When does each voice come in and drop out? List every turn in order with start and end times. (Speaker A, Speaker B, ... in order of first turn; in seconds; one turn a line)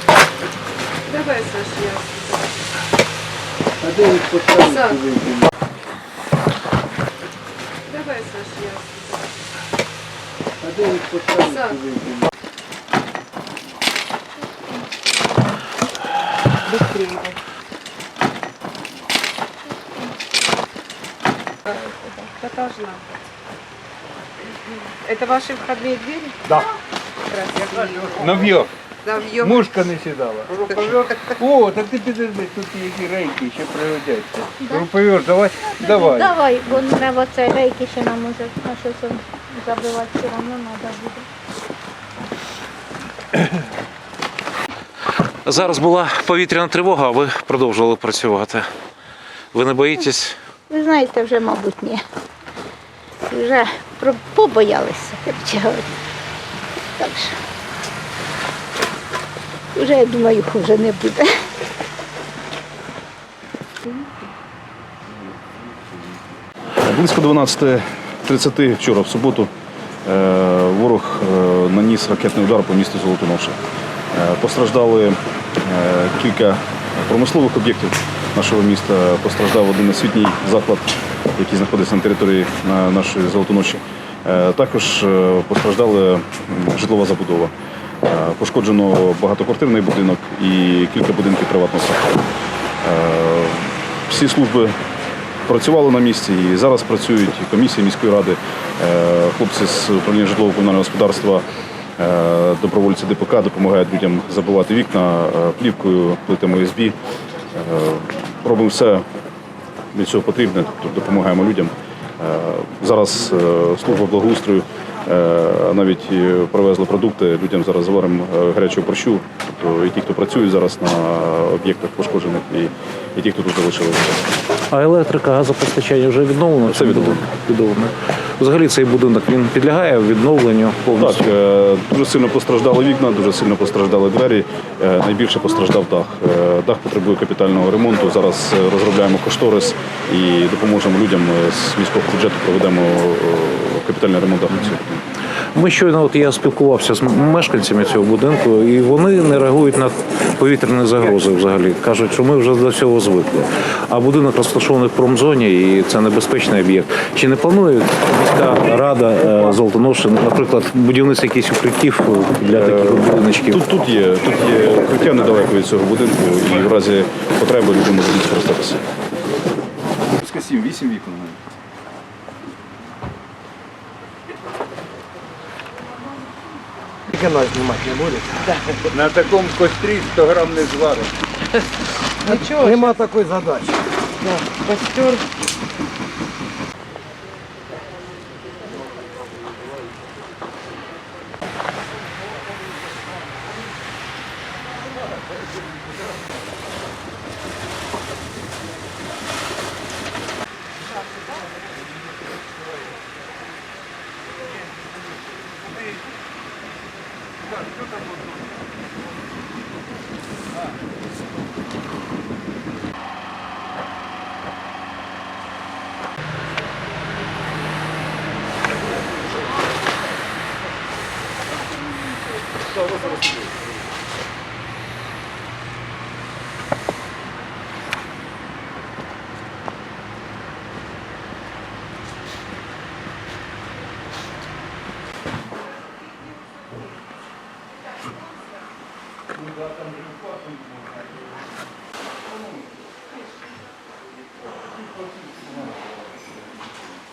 Speaker A: 1.1-2.5
Speaker B: 3.8-5.5
Speaker A: 4.6-5.0
Speaker A: 7.9-9.3
Speaker B: 10.6-12.3
Speaker A: 11.4-11.8
Speaker A: 16.7-17.4
Speaker A: 21.6-23.2
Speaker A: 24.7-26.4
Speaker A: 27.3-29.6
Speaker B: 27.8-28.7
Speaker B: 29.3-36.4
Speaker A: 30.6-31.0
Speaker C: 34.6-34.9
Speaker C: 35.6-41.3
Speaker D: 45.4-48.7
Speaker D: 49.5-50.4
Speaker C: 50.7-52.0
Speaker C: 53.2-55.9
Speaker C: 56.9-57.4
Speaker C: 59.7-61.3
Speaker E: 66.8-69.5
Speaker E: 70.0-73.6
Speaker E: 74.1-87.5
Speaker E: 88.0-92.2
Speaker E: 92.8-94.8
Speaker E: 95.5-101.5
Speaker E: 102.0-107.0
Speaker E: 107.5-109.0
Speaker E: 109.9-124.3
Speaker D: 124.7-131.2
Speaker E: 126.7-127.2
Speaker E: 131.0-144.9
Speaker D: 145.5-163.7
Speaker E: 162.5-168.8
Speaker E: 170.2-171.4
Speaker B: 170.3-170.9
Speaker F: 177.1-178.8
Speaker B: 178.9-181.1
Speaker F: 182.2-185.2
Speaker B: 239.6-240.6